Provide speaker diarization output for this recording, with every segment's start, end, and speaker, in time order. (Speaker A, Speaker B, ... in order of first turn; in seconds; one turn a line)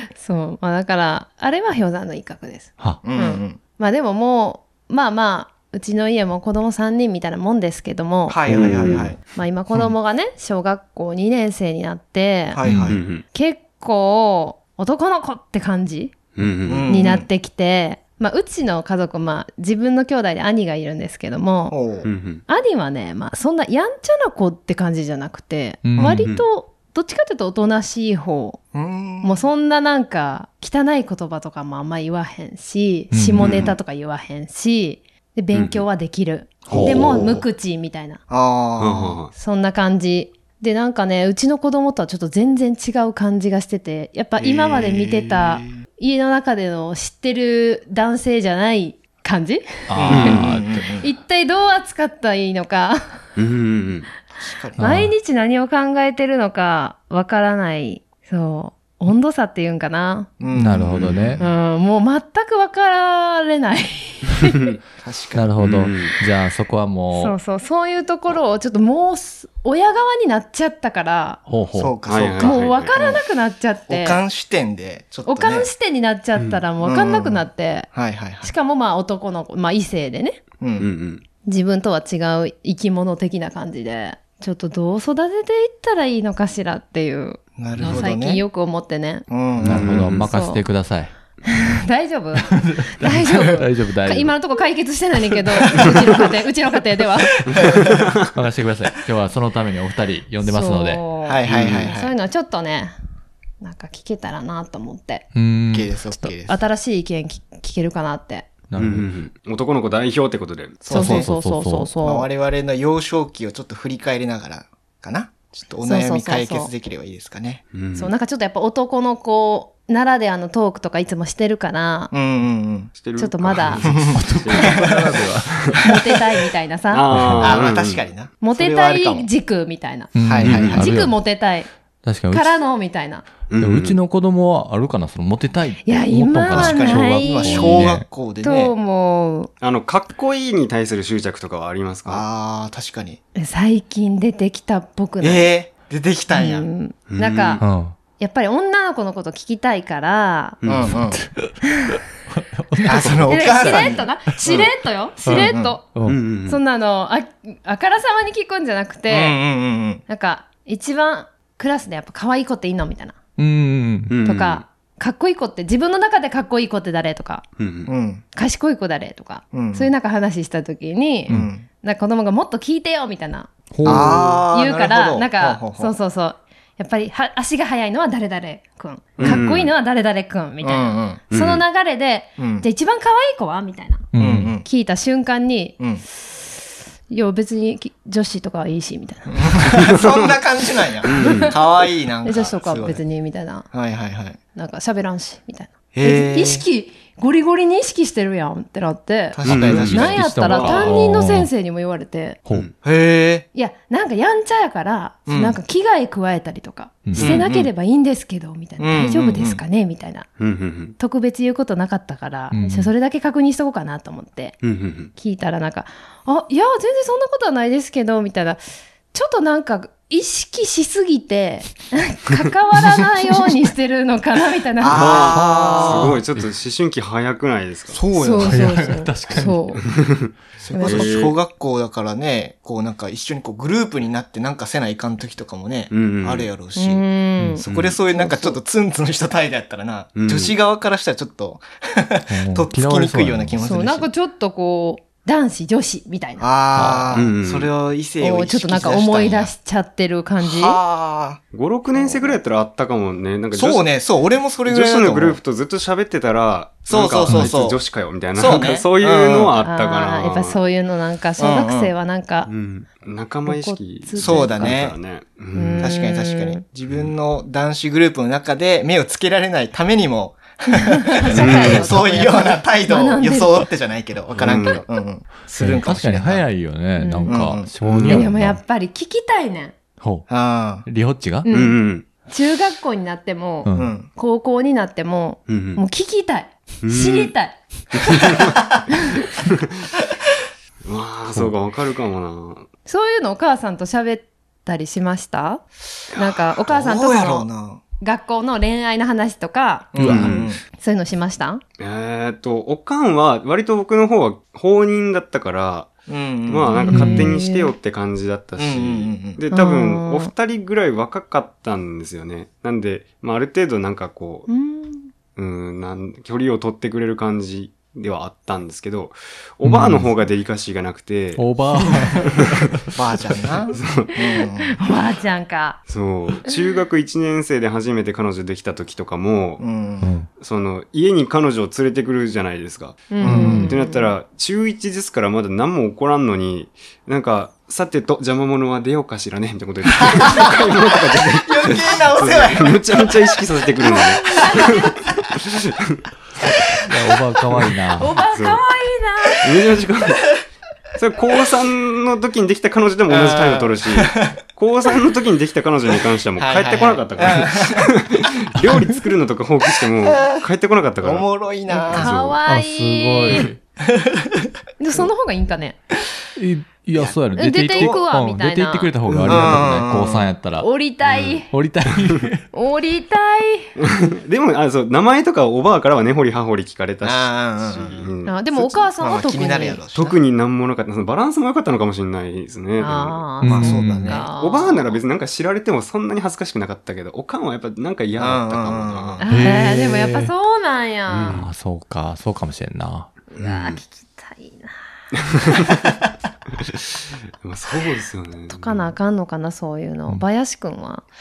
Speaker A: 0.2-12.6
Speaker B: 3.0-3.6
Speaker B: 8.3-9.2
Speaker C: 8.5-9.1
Speaker D: 8.5-9.0
Speaker B: 12.5-13.0
Speaker D: 12.6-13.0
Speaker C: 12.9-13.2
Speaker A: 13.3-16.1
Speaker C: 16.3-16.9
Speaker B: 16.6-17.3
Speaker A: 16.9-21.8
Speaker B: 21.7-22.1
Speaker C: 22.0-22.4
Speaker A: 22.5-28.6
Speaker D: 25.8-26.2
Speaker B: 25.9-26.2
Speaker B: 28.7-29.4
Speaker A: 29.2-38.2
Speaker D: 33.1-33.6
Speaker C: 33.4-33.7
Speaker C: 35.5-35.8
Speaker D: 36.6-37.4
Speaker B: 36.7-37.4
Speaker B: 38.3-39.2
Speaker C: 38.8-39.3
Speaker A: 39.3-50.3
Speaker B: 44.4-45.7
Speaker D: 49.9-50.7
Speaker B: 50.0-51.1
Speaker C: 50.1-50.5
Speaker A: 51.0-53.2
Speaker C: 53.4-54.1
Speaker B: 54.4-54.8
Speaker D: 54.8-55.1
Speaker A: 54.8-60.3
Speaker B: 60.4-61.6
Speaker D: 60.5-61.4
Speaker C: 60.9-61.3
Speaker A: 61.4-64.6
Speaker B: 65.0-65.5
Speaker D: 65.3-67.4
Speaker C: 65.6-66.2
Speaker A: 67.1-71.4
Speaker D: 71.5-72.0
Speaker B: 71.8-73.2
Speaker C: 72.1-72.9
Speaker A: 72.4-74.2
Speaker B: 73.9-75.7
Speaker A: 75.2-80.4
Speaker C: 76.4-76.6
Speaker B: 76.8-78.5
Speaker B: 80.6-80.9
Speaker C: 80.8-81.2
Speaker A: 81.4-89.3
Speaker B: 87.6-88.4
Speaker C: 87.7-88.0
Speaker B: 89.3-90.1
Speaker C: 89.6-90.3
Speaker D: 89.6-91.1
Speaker A: 90.2-90.6
Speaker A: 91.5-97.3
Speaker D: 92.7-94.3
Speaker B: 97.5-97.8
Speaker C: 97.5-98.1
Speaker D: 98.3-101.0
Speaker A: 100.4-102.9
Speaker B: 101.2-102.1
Speaker C: 101.4-101.9
Speaker A: 103.6-105.3
Speaker D: 105.3-105.9
Speaker B: 105.7-106.6
Speaker A: 106.2-108.5
Speaker D: 108.7-109.0
Speaker C: 108.7-110.8
Speaker B: 110.8-111.3
Speaker A: 110.9-112.3
Speaker D: 110.9-111.9
Speaker B: 112.0-117.6
Speaker A: 115.8-116.7
Speaker C: 117.7-118.1
Speaker A: 117.9-122.1
Speaker B: 122.1-122.9
Speaker C: 123.0-124.9
Speaker A: 123.2-123.9
Speaker B: 123.8-125.2
Speaker D: 124.1-126.0
Speaker A: 125.8-127.0
Speaker C: 126.9-128.1
Speaker D: 127.1-127.6
Speaker B: 127.4-129.3
Speaker A: 128.4-131.7
Speaker D: 130.1-131.2
Speaker B: 130.2-130.9
Speaker C: 130.4-130.8
Speaker D: 132.0-132.6
Speaker A: 132.3-133.2
Speaker C: 133.5-134.0
Speaker D: 133.6-138.1
Speaker A: 135.8-139.5
Speaker B: 136.5-138.7
Speaker C: 139.6-142.2
Speaker B: 142.1-143.2
Speaker A: 143.3-145.5
Speaker B: 145.2-146.7
Speaker A: 146.3-147.6
Speaker C: 147.1-147.6
Speaker D: 147.6-147.9
Speaker A: 148.2-150.6
Speaker C: 150.6-151.0
Speaker B: 150.7-151.2
Speaker D: 151.2-151.5
Speaker D: 152.3-153.8
Speaker B: 152.8-154.1
Speaker A: 153.0-155.8
Speaker D: 155.2-156.2
Speaker B: 155.3-155.8
Speaker C: 156.0-156.6
Speaker A: 156.5-159.4
Speaker B: 159.1-160.0
Speaker A: 160.1-163.2
Speaker D: 163.4-164.1
Speaker C: 164.1-164.6
Speaker A: 164.2-167.4
Speaker C: 167.6-167.9
Speaker B: 167.9-168.2
Speaker A: 168.3-173.5
Speaker B: 169.5-169.9
Speaker B: 171.3-171.6
Speaker D: 173.7-174.4
Speaker B: 173.8-175.9
Speaker C: 173.8-174.3
Speaker A: 174.2-184.1
Speaker C: 179.2-179.7
Speaker B: 180.6-181.2
Speaker C: 181.3-181.6
Speaker B: 182.4-182.7
Speaker D: 184.1-184.6
Speaker B: 184.2-184.7
Speaker A: 184.6-189.5
Speaker B: 189.3-193.0
Speaker C: 189.7-190.3
Speaker C: 191.1-191.5
Speaker A: 191.2-191.5
Speaker A: 192.2-193.7
Speaker B: 193.7-194.4
Speaker A: 194.5-202.4
Speaker B: 195.9-196.6
Speaker B: 199.3-201.0
Speaker C: 199.4-200.0
Speaker D: 199.5-201.5
Speaker B: 202.8-203.4
Speaker A: 203.5-210.3
Speaker B: 205.3-205.6
Speaker D: 207.0-207.4
Speaker B: 207.2-207.4
Speaker C: 207.4-207.7
Speaker B: 208.8-209.6
Speaker C: 210.4-210.9
Speaker A: 211.0-214.6
Speaker D: 212.5-212.9
Speaker C: 214.6-215.1
Speaker A: 215.2-218.6
Speaker A: 219.1-225.0
Speaker B: 224.8-226.2
Speaker C: 224.9-228.0
Speaker D: 225.0-226.4
Speaker B: 227.9-229.0
Speaker A: 228.1-229.8
Speaker D: 228.4-229.7
Speaker C: 229.8-230.3
Speaker B: 230.6-237.0
Speaker A: 230.7-231.3
Speaker C: 230.8-231.3
Speaker C: 235.9-236.5
Speaker A: 236.8-238.6
Speaker B: 237.6-244.1
Speaker C: 237.6-238.0
Speaker C: 240.2-240.6
Speaker D: 242.3-243.6
Speaker A: 243.6-246.5
Speaker B: 246.4-249.5
Speaker D: 246.7-247.1
Speaker C: 247.1-247.7
Speaker A: 248.2-250.8
Speaker B: 250.4-251.4
Speaker C: 251.5-254.0
Speaker A: 251.9-252.4
Speaker B: 253.5-255.4
Speaker C: 254.6-260.6
Speaker B: 256.9-257.8
Speaker D: 257.3-257.5
Speaker B: 258.3-259.5
Speaker A: 259.6-262.5
Speaker B: 261.4-261.9
Speaker C: 262.5-265.9
Speaker A: 263.4-264.8
Speaker B: 264.2-264.9
Speaker A: 265.5-266.6
Speaker B: 265.8-276.4
Speaker A: 270.9-273.7
Speaker C: 271.3-272.0
Speaker C: 274.4-274.8
Speaker D: 275.5-278.6
Speaker A: 277.0-277.4
Speaker B: 277.2-278.1
Speaker C: 277.8-278.3
Speaker A: 278.0-279.7
Speaker D: 280.0-280.3
Speaker B: 280.3-280.9
Speaker D: 280.8-281.5
Speaker A: 281.4-287.6
Speaker C: 281.5-282.1
Speaker D: 283.6-283.9
Speaker B: 283.7-284.1
Speaker C: 285.5-285.8
Speaker C: 286.8-287.3
Speaker C: 287.9-288.5
Speaker C: 290.8-292.7
Speaker A: 292.9-297.5
Speaker B: 296.7-297.8
Speaker A: 298.0-299.9
Speaker B: 299.9-300.6
Speaker D: 300.0-300.4
Speaker C: 300.0-300.5
Speaker A: 300.7-301.6
Speaker C: 301.8-314.5
Speaker B: 306.1-306.8
Speaker A: 306.7-307.7
Speaker D: 306.9-307.3
Speaker B: 308.6-309.4
Speaker A: 309.5-310.3
Speaker A: 314.5-315.1
Speaker C: 315.4-321.5
Speaker D: 319.6-320.1
Speaker D: 321.4-323.5
Speaker B: 322.9-324.8
Speaker C: 323.8-324.1
Speaker A: 324.3-325.8
Speaker C: 325.9-329.7
Speaker B: 329.6-330.1
Speaker D: 330.0-330.3
Speaker C: 330.4-346.0
Speaker A: 333.1-334.1
Speaker B: 333.2-333.8
Speaker D: 333.3-333.7
Speaker B: 340.1-340.5
Speaker B: 341.3-343.1
Speaker A: 343.8-345.0
Speaker D: 346.8-348.1
Speaker A: 348.0-349.5
Speaker C: 348.3-348.6
Speaker C: 349.4-350.3
Speaker C: 350.9-361.3
Speaker B: 353.1-354.4
Speaker B: 356.4-357.9
Speaker D: 358.6-359.0
Speaker B: 359.8-360.4
Speaker B: 361.0-362.1
Speaker A: 361.7-363.5
Speaker C: 361.9-362.4
Speaker D: 362.4-363.6
Speaker B: 363.9-365.1
Speaker A: 364.8-365.8
Speaker D: 366.4-370.7
Speaker A: 367.4-368.9
Speaker C: 369.1-369.7
Speaker B: 369.2-370.3
Speaker A: 370.6-371.5
Speaker C: 371.0-371.4
Speaker D: 371.5-372.4
Speaker A: 372.5-373.7
Speaker C: 373.8-378.3
Speaker B: 377.0-380.2
Speaker A: 378.3-379.8
Speaker C: 379.9-383.2
Speaker A: 382.8-385.0
Speaker D: 383.4-384.2
Speaker B: 383.4-384.3
Speaker C: 384.4-389.2
Speaker B: 388.2-389.3
Speaker A: 389.2-391.4
Speaker D: 389.3-390.3
Speaker C: 391.1-391.5
Speaker D: 391.3-393.1
Speaker A: 393.3-394.9
Speaker C: 393.4-393.8
Speaker C: 397.4-398.9
Speaker A: 398.5-401.1